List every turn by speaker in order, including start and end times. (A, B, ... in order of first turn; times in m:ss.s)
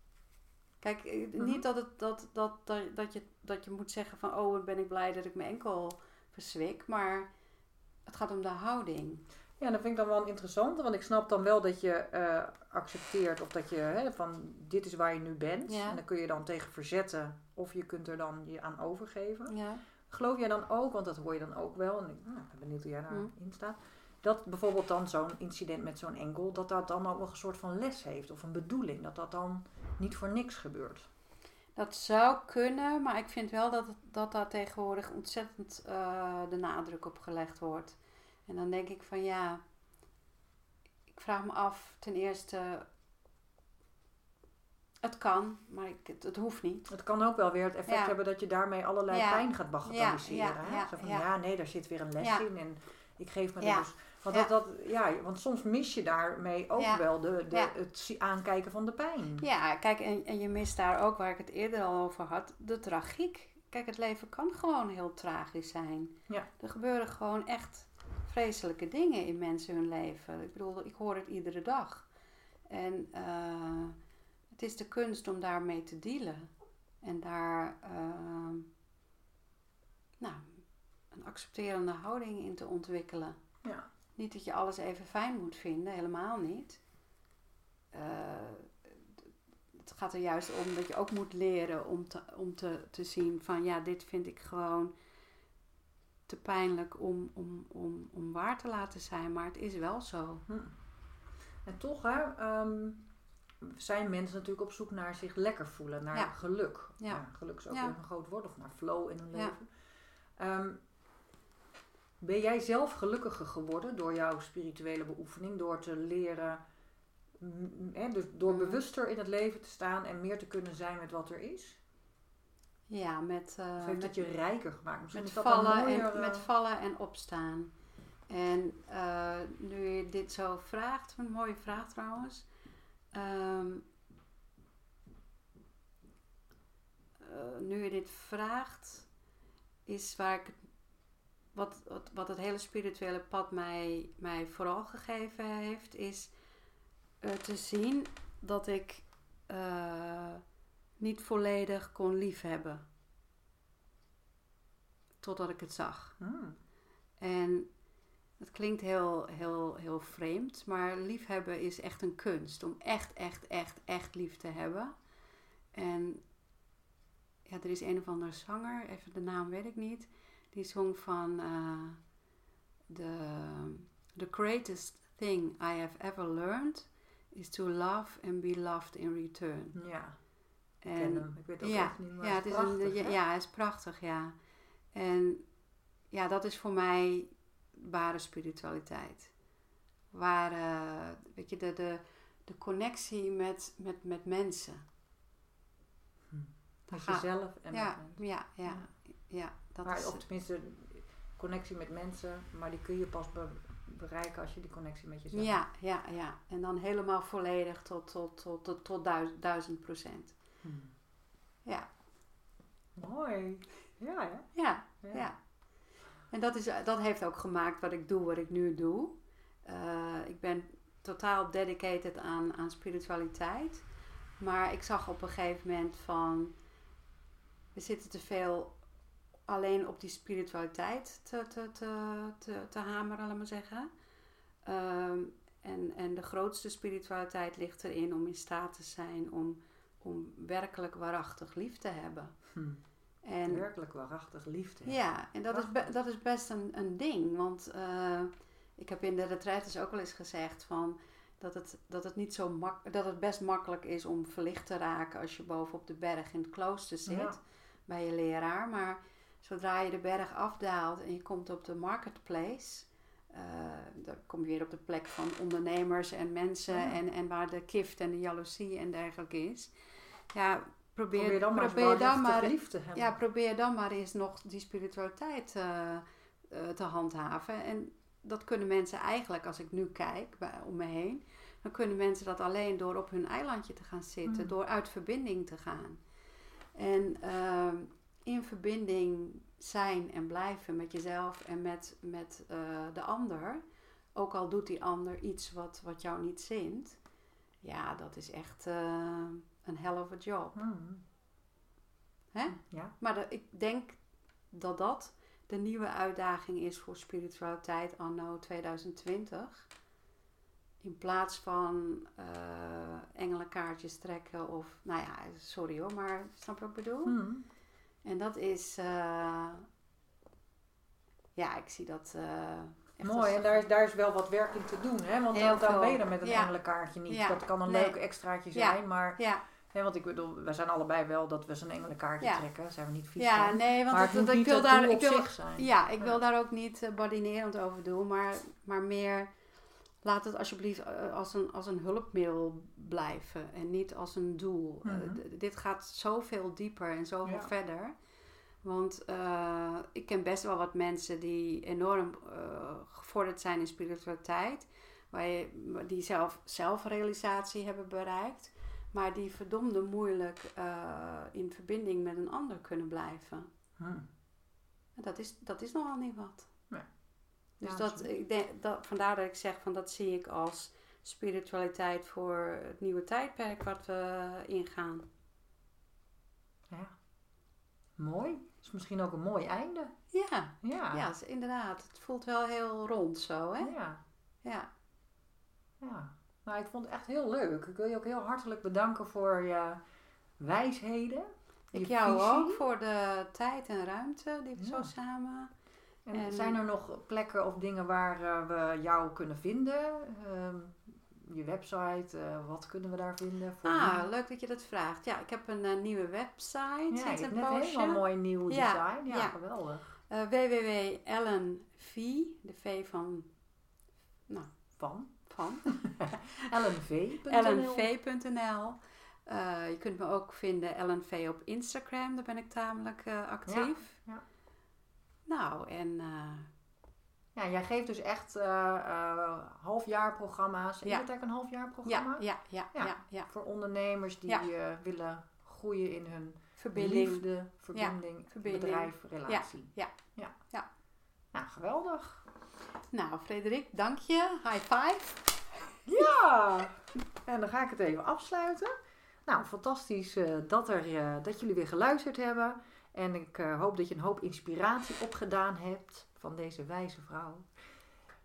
0:00.8-0:07.3 A
0:01.4-0:01.6 B
0:08.0-0:09.2 A
0:09.6-0:19.6 B
0:15.7-0:16.0 A
0:19.5-0:19.8 A
0:20.1-0:31.1 B
0:31.8-0:39.6 A
0:41.1-0:42.8 A
0:45.0-0:46.9 A
0:46.9-0:59.4 B
0:47.9-0:48.1 A
0:49.1-0:51.2 A
0:53.6-0:54.5 A
0:56.8-0:57.7 A
0:59.4-1:12.0 A
1:12.7-1:14.0 A
1:14.5-1:16.5 A
1:17.0-1:18.7 A
1:20.2-1:23.4 A
1:24.2-1:26.8 A
1:27.9-1:28.9 A
1:29.7-1:34.9 A
1:36.3-1:40.4 A
1:40.5-1:40.7 B
1:41.6-1:43.0 B
1:43.6-1:49.7 B
1:47.0-1:47.9 A
1:50.4-1:50.8 B
1:52.2-1:56.6 B
1:57.4-2:01.8 B
1:58.5-1:58.8 A
2:02.9-2:04.2 A
2:03.8-2:06.5 B
2:05.1-2:07.7 A
2:08.3-2:12.4 A
2:13.1-2:13.8 A
2:17.2-2:19.1 A
2:19.8-2:20.6 A
2:21.5-2:26.3 A
2:27.2-2:30.4 A
2:31.0-2:32.8 A
2:35.2-2:36.2 A
2:36.2-2:36.6 B
2:37.2-2:37.7 A
2:38.4-2:44.9 A
2:45.7-2:46.2 A
2:47.4-2:52.0 A
2:52.9-2:59.7 A
2:59.7-3:00.2 B
3:00.8-3:04.4 A
3:00.9-3:03.2 B
3:04.9-3:05.4 A
3:06.1-3:09.3 A
3:10.1-3:14.8 A
3:16.3-3:18.9 B
3:16.9-3:20.2 A
3:19.8-3:25.6 B
3:25.3-3:30.4 A
3:30.6-3:30.9 B
3:33.0-3:34.5 B
3:34.5-3:35.4 A
3:36.3-3:43.8 A
3:44.4-3:46.5 A
3:47.7-3:48.7 A
3:49.5-3:53.9 A
3:54.6-4:02.3 A
4:02.5-4:02.8 B
4:03.2-4:03.6 A
4:03.5-4:05.9 B
4:04.8-4:29.7 A
4:17.1-4:17.4 B
4:26.7-4:27.0 B
4:30.3-4:46.0 A
4:31.1-4:33.1 B
4:44.2-4:44.5 B
4:46.8-4:53.6 A
4:54.1-4:57.0 A
4:57.6-5:00.6 A
5:00.5-5:01.0 B
5:02.3-5:04.0 A
5:02.5-5:02.9 B
5:04.5-5:09.7 A
5:10.8-5:17.2 A
5:17.0-5:17.4 B
5:18.0-5:19.6 A
5:21.4-5:23.6 A
5:23.0-5:29.2 B
5:25.3-5:26.5 A
5:27.1-5:28.0 A
5:28.5-5:29.4 A
5:29.7-5:36.2 B
5:33.2-5:39.3 A
5:40.0-5:47.9 A
5:44.8-5:45.2 B
5:47.2-5:47.5 B
5:48.6-6:03.5 A
6:03.8-6:04.0 B
6:05.0-6:06.5 A
6:07.6-6:08.1 B
6:07.6-6:15.1 A
6:18.0-6:19.9 B
6:20.1-6:23.7 A
6:20.6-6:21.0 B
6:23.6-6:24.0 B
6:25.8-6:29.8 B
6:30.4-6:32.6 B
6:31.7-6:35.5 A
6:34.6-6:34.9 B
6:36.0-6:44.0 B
6:36.1-6:36.6 A
6:43.6-6:49.3 A
6:46.9-6:49.8 B
6:50.1-6:53.3 A
6:54.8-6:57.9 B
6:55.3-6:56.5 A
6:57.3-7:03.9 A
7:03.5-7:04.2 B
7:05.3-7:06.5 A
7:07.3-7:20.3 B
7:11.8-7:13.3 A
7:16.6-7:19.9 A
7:21.3-7:22.2 B
7:22.9-7:25.8 A
7:25.8-7:28.7 B
7:29.2-7:37.5 B